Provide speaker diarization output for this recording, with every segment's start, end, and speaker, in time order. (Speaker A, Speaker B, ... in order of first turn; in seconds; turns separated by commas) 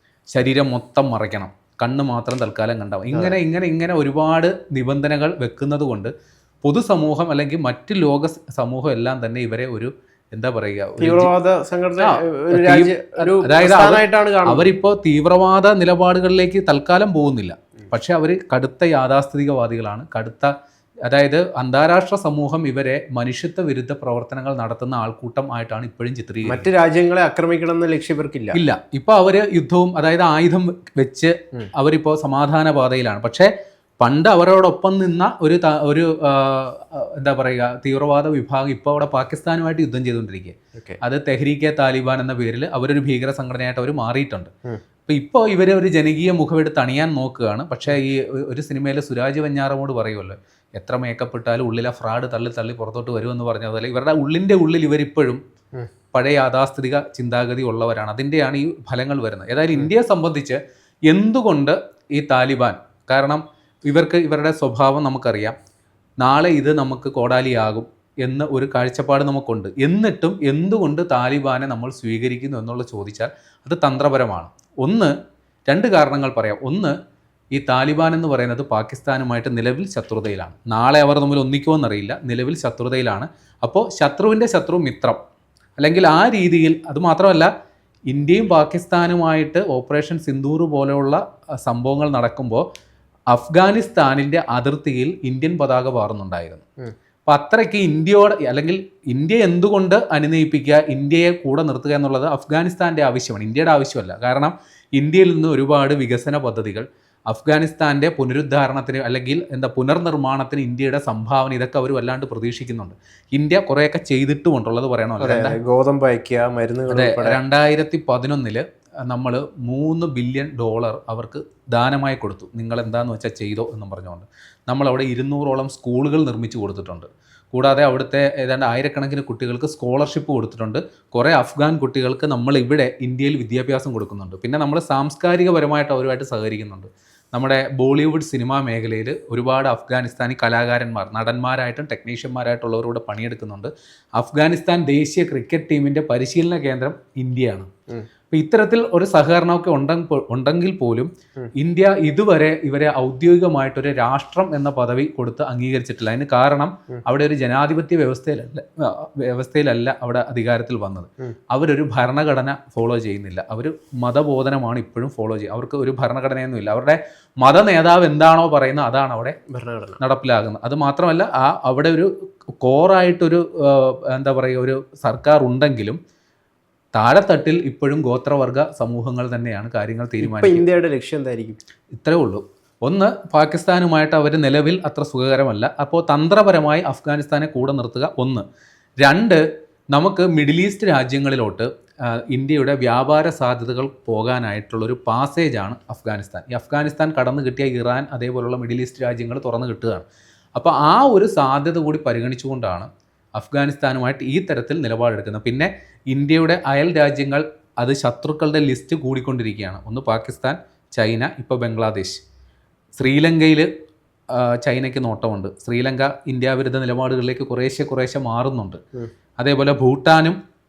Speaker A: 0.3-6.1, Speaker B: 3.1-3.4, Speaker A: 6.6-11.3, Speaker B: 11.0-14.7, Speaker A: 12.0-20.5, Speaker A: 21.1-26.7, Speaker B: 26.5-28.6, Speaker A: 28.5-44.5, Speaker A: 45.1-55.4, Speaker A: 56.1-65.6, Speaker A: 66.2-75.1, Speaker A: 75.7-77.0, Speaker A: 77.5-85.2, Speaker A: 85.8-87.5, Speaker A: 88.1-92.7, Speaker A: 93.3-96.6, Speaker A: 97.3-115.6, Speaker B: 115.2-117.4, Speaker A: 116.9-147.7, Speaker A: 148.3-169.4, Speaker B: 169.5-170.0, Speaker A: 170.0-176.0, Speaker A: 176.9-180.7, Speaker B: 180.2-181.6, Speaker A: 181.9-188.4, Speaker A: 189.0-189.4, Speaker A: 189.9-212.2, Speaker A: 213.0-213.7, Speaker A: 214.3-218.8, Speaker A: 219.4-220.4